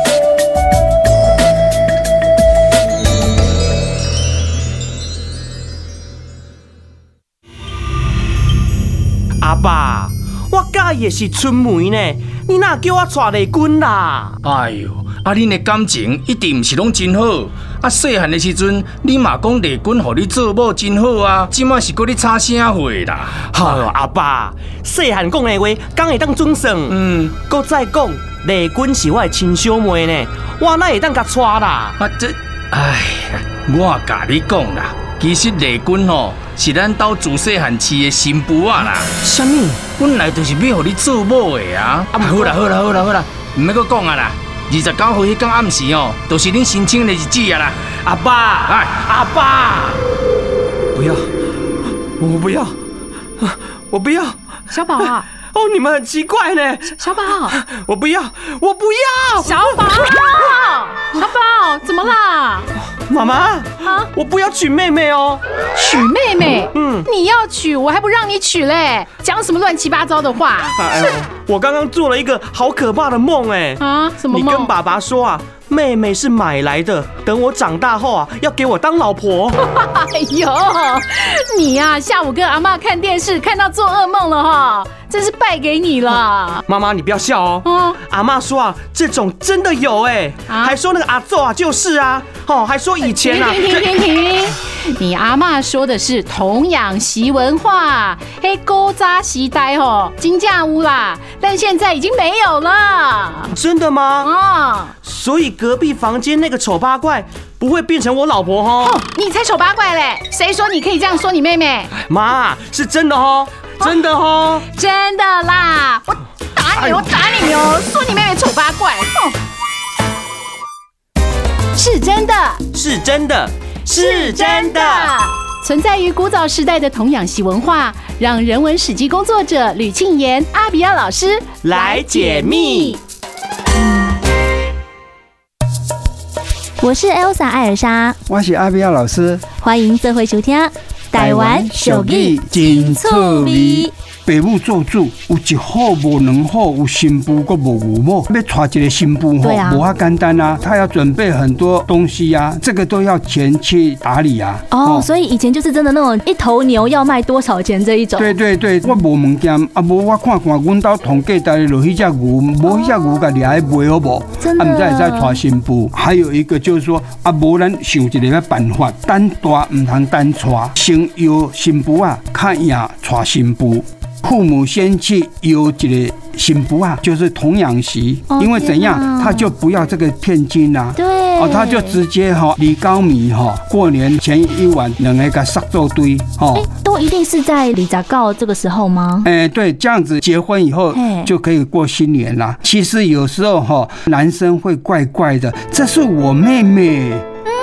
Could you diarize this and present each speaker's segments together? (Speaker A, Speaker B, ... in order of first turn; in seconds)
Speaker A: 9.4-14.4, 23.5-32.0, 39.2-39.8, 42.1-42.6, 48.0-50.0, 51.0-51.3, 52.2-52.8, 53.4-54.4, 54.9-59.8, 62.9-65.4, 66.7-67.1, 70.8-79.6, 86.7-94.0, 103.5-104.3, 105.0-109.0, 112.0-114.7, 116.8-117.1, 122.7-125.1, 131.6-133.0
Speaker B: 14.4-23.9, 26.9-27.4, 32.0-39.1, 40.0-47.9
Speaker C: 54.7-55.3, 57.0-57.6, 59.4-62.7, 65.8-71.2, 73.8-74.7, 79.6-86.6, 87.7-88.0, 90.5-90.8, 93.0-103.5, 104.2-104.9, 108.8-112.0, 114.7-119.4, 121.7-122.6, 123.9-133.0
Speaker D: 136.8-138.2, 139.6-143.9, 149.4-149.8, 154.7-158.3, 164.4-165.4, 178.3-179.5, 181.0-182.0, 186.5-189.3, 190.9-191.3
Speaker E: 138.3-139.4, 141.1-155.1, 158.2-186.7, 189.2-197.3